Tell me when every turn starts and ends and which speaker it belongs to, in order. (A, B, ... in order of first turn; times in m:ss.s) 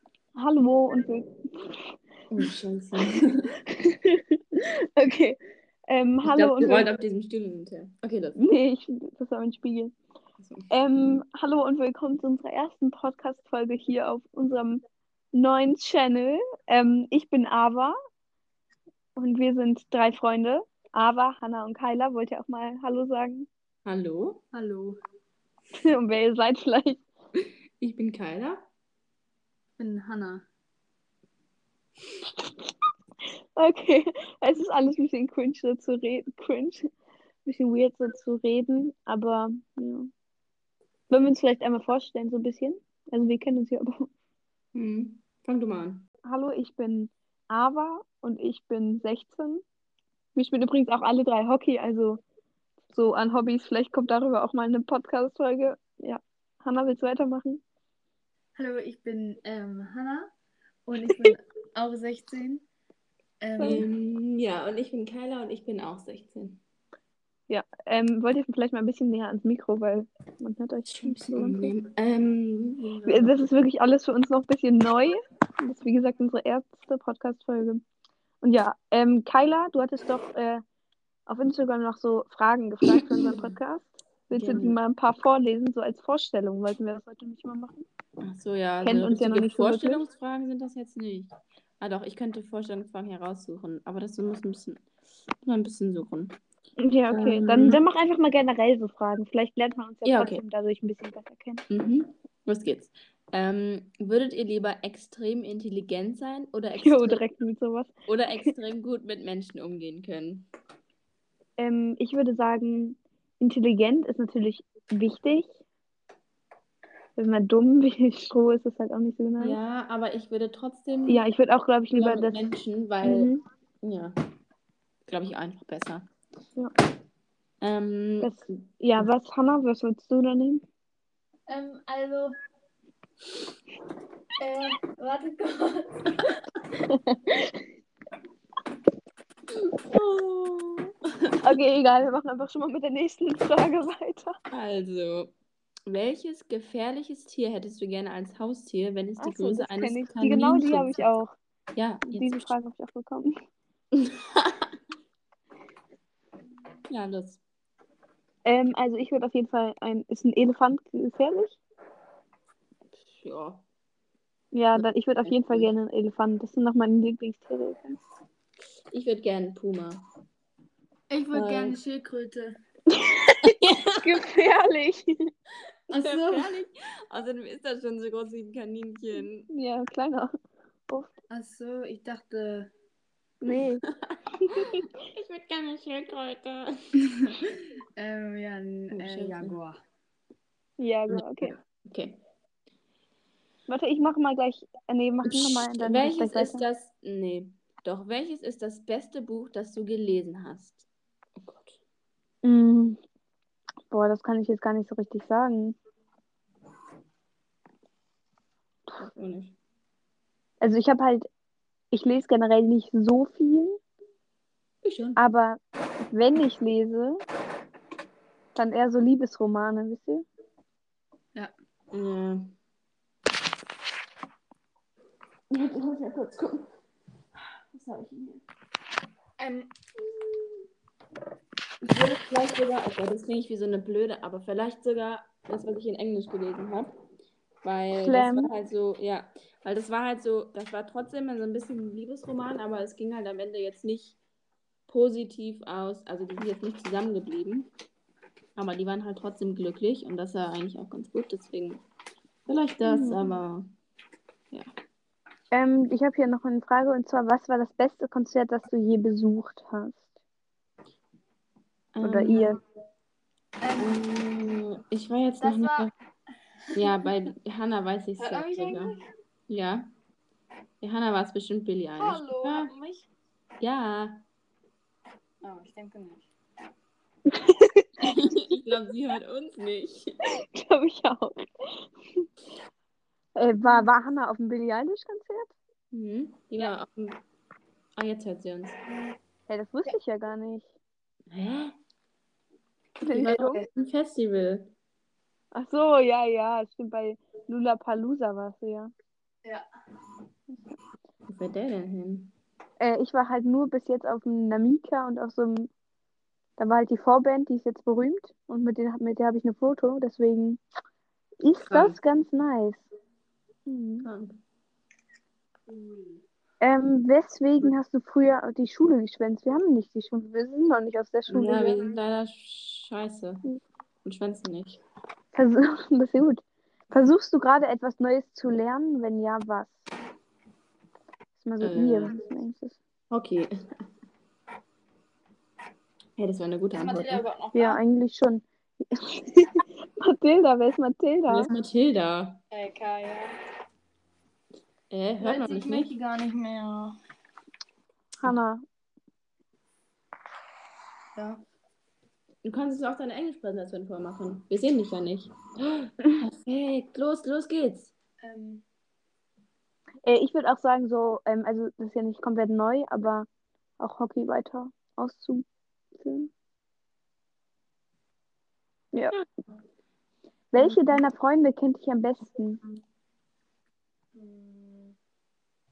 0:00.4-0:01.8 A
0:02.3-0:03.5 B
0:03.7-0:05.4 A
0:05.9-0:06.9 A
0:06.2-0:08.4 B
0:08.4-0:10.0 A
0:10.4-0:11.2 B
0:10.7-0:14.8 A
0:15.3-0:18.0 A
0:19.2-0:23.5 A
0:23.8-0:24.4 B
0:24.5-0:25.0 C
0:25.8-0:27.0 A
0:27.8-0:28.7 B
0:29.8-0:30.4 C
0:33.6-0:36.9 A
0:37.4-0:40.1 A
0:41.1-0:44.1 A
0:44.7-0:46.1 B
0:46.2-0:49.6 A
0:50.4-0:52.2 A
0:52.9-0:57.6 A
0:58.6-1:00.3 C
1:00.9-1:02.6 C
1:03.4-1:03.9 C
1:03.6-1:06.6 B
1:07.5-1:11.7 A
1:10.9-1:13.5 B
1:13.1-1:17.8 A
1:18.4-1:20.6 A
1:21.3-1:27.8 A
1:23.0-1:23.5 B
1:24.3-1:24.8 B
1:28.2-1:34.8 B
1:28.8-1:30.0 A
1:35.4-1:36.4 B
1:36.8-1:41.6 A
1:37.1-1:37.8 B
1:40.0-1:40.4 B
1:41.7-1:47.2 B
1:46.8-1:48.5 A
1:48.1-1:50.5 B
1:51.6-1:55.6 A
1:57.2-1:59.6 A
1:59.4-2:01.2 B
2:01.1-2:02.5 A
2:01.9-2:03.3 B
2:03.0-2:03.4 A
2:03.8-2:04.2 B
2:05.1-2:06.1 B
2:07.6-2:08.4 B
2:08.2-2:10.6 A
2:11.5-2:12.4 C
2:14.4-2:16.3 C
2:16.9-2:17.6 A
2:19.8-2:21.4 B
2:21.4-2:24.4 A
2:24.5-2:25.3 B
2:25.9-2:31.0 B
2:29.2-2:31.3 A
2:31.8-2:32.5 B
2:32.1-2:33.4 A
2:33.9-2:34.7 B
2:36.9-2:37.4 B
2:38.4-2:41.6 A
2:43.0-2:43.6 B
2:44.5-2:48.0 A
2:44.8-2:45.7 B
2:48.9-2:50.0 B
2:51.1-2:52.6 C
2:51.3-2:51.8 B
2:53.0-2:55.3 A
2:53.4-2:54.1 B
2:55.9-2:56.6 C
2:55.9-2:59.5 B
2:59.5-3:00.3 A
3:01.3-3:02.7 C
3:03.4-3:03.8 A
3:03.5-3:06.9 B
3:04.5-3:04.8 A
3:08.0-3:09.8 C
3:08.9-3:09.6 B
3:10.8-3:11.6 A
3:11.1-3:12.2 B
3:13.7-3:16.6 A
3:15.2-3:21.8 B
3:22.4-3:23.0 A
3:23.9-3:25.8 A
3:29.0-3:29.5 B
3:30.6-3:31.3 A
3:31.9-3:33.8 A
3:34.8-3:35.2 B
3:35.2-3:37.2 A
3:38.6-3:40.3 A
3:41.9-3:42.5 B
3:45.5-3:46.7 B
3:47.7-3:48.4 B
3:49.4-3:49.7 C
3:51.8-3:56.9 B
3:57.6-4:04.2 B
3:58.0-3:58.5 A
4:04.9-4:07.7 B
4:08.6-4:11.8 B
4:12.5-4:13.7 B
4:12.9-4:13.3 A
4:15.5-4:20.0 A
4:21.9-4:22.6 B
4:22.0-4:22.6 A
4:23.6-4:24.0 C
4:23.8-4:25.9 B
4:25.4-4:25.9 C
4:26.8-4:28.9 B
4:28.2-4:29.1 C
4:29.5-4:29.9 B
4:30.8-4:32.7 B
4:32.0-4:33.1 C
4:33.6-4:34.2 B
4:35.4-4:36.2 C
4:37.3-4:38.1 A
4:38.0-4:40.1 B
4:40.4-4:42.3 A
4:43.4-4:45.6 A
4:45.9-4:47.2 B
4:48.0-4:48.8 B
4:49.5-4:50.7 A
4:51.3-4:51.8 B
4:53.0-4:53.6 A
4:53.0-4:54.7 B
4:55.5-4:58.9 A
5:01.3-5:02.3 B
5:02.8-5:05.7 A
5:06.6-5:10.6 A
5:11.4-5:12.9 A
5:11.7-5:12.0 B
5:13.7-5:14.1 A
5:14.0-5:14.4 B
5:16.6-5:21.8 A
5:21.3-5:23.4 B
5:24.0-5:24.8 B
5:25.3-5:29.8 A
5:31.4-5:32.8 A
5:31.6-5:32.1 B
5:33.1-5:33.5 B
5:36.2-5:37.3 B
5:36.7-5:37.8 C
5:37.5-5:41.5 A
5:41.3-5:42.4 B
5:42.5-5:43.3 C
5:44.9-5:45.9 B
5:45.2-5:47.0 C
5:48.2-5:48.6 A
5:51.2-5:51.4 C
5:52.4-5:57.9 B
5:58.2-5:58.6 C
6:00.0-6:03.3 A
6:03.8-6:05.4 A
6:06.0-6:06.3 A
6:10.5-6:12.6 A
6:14.2-6:14.9 C